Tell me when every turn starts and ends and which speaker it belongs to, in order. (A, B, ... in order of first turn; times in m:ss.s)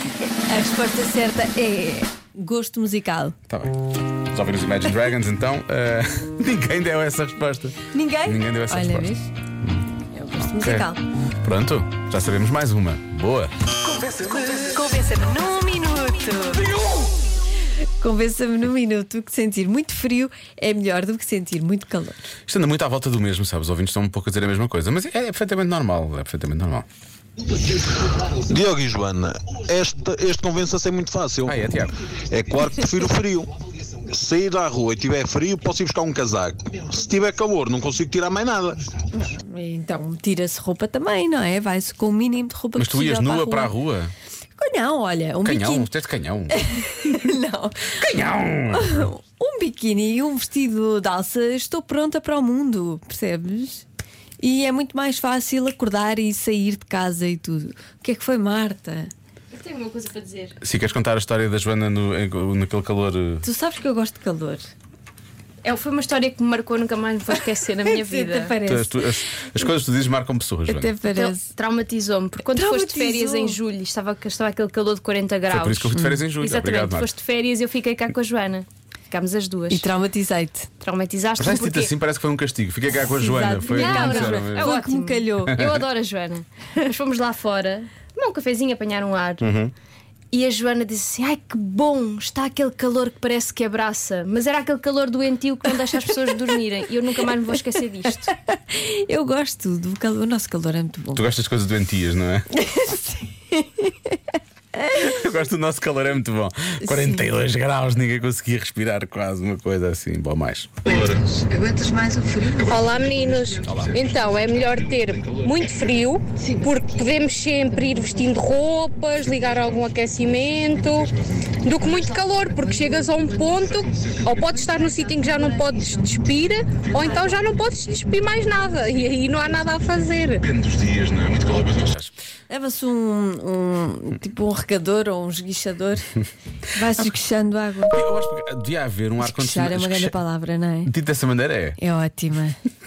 0:00.4-0:03.4 A
0:03.5-0:10.9 B
0:07.9-0:09.3 A
0:10.1-0:11.0 A
0:11.4-0:13.5 B
0:13.8-0:16.7 A
0:18.0-0:22.2 A
0:22.5-0:26.8 B
0:28.5-0:31.6 C
0:31.4-0:31.9 B
0:32.3-0:33.5 C
0:34.1-0:38.8 C
0:39.1-0:43.7 A
0:42.8-0:44.1 B
0:44.6-0:45.9 A
0:45.4-0:46.6 B
0:46.5-0:53.8 A
0:48.0-0:49.1 B
0:54.4-0:59.1 A
0:59.5-1:00.6 D
1:00.6-1:03.4 B
1:03.4-1:04.7 A
1:05.6-1:08.6 D
1:07.8-1:09.0 A
1:08.6-1:10.9 B
1:10.7-1:11.5 A
1:11.1-1:19.9 D
1:12.5-1:13.6 A
1:15.5-1:17.1 B
1:15.9-1:16.2 A
1:19.7-1:20.7 A
1:20.8-1:21.9 D
1:21.4-1:24.8 B
1:23.1-1:25.6 A
1:23.6-1:29.4 D
1:25.5-1:25.8 B
1:29.4-1:29.7 B
1:30.3-1:38.3 D
1:38.1-1:41.2 A
1:41.1-1:42.5 B
1:42.6-1:44.1 A
1:44.9-1:50.8 B
1:46.8-1:47.3 A
1:50.8-1:53.3 A
1:52.6-2:01.1 E
1:53.6-1:54.0 B
1:56.4-1:57.2 A
1:57.7-1:58.2 A
2:01.6-2:10.4 E
2:02.7-2:03.1 A
2:04.5-2:07.6 A
2:10.4-2:12.1 B
2:12.5-2:16.2 A
2:16.7-2:18.1 A
2:17.9-2:20.2 B
2:19.2-2:20.9 A
2:20.8-2:21.8 B
2:21.8-2:22.6 A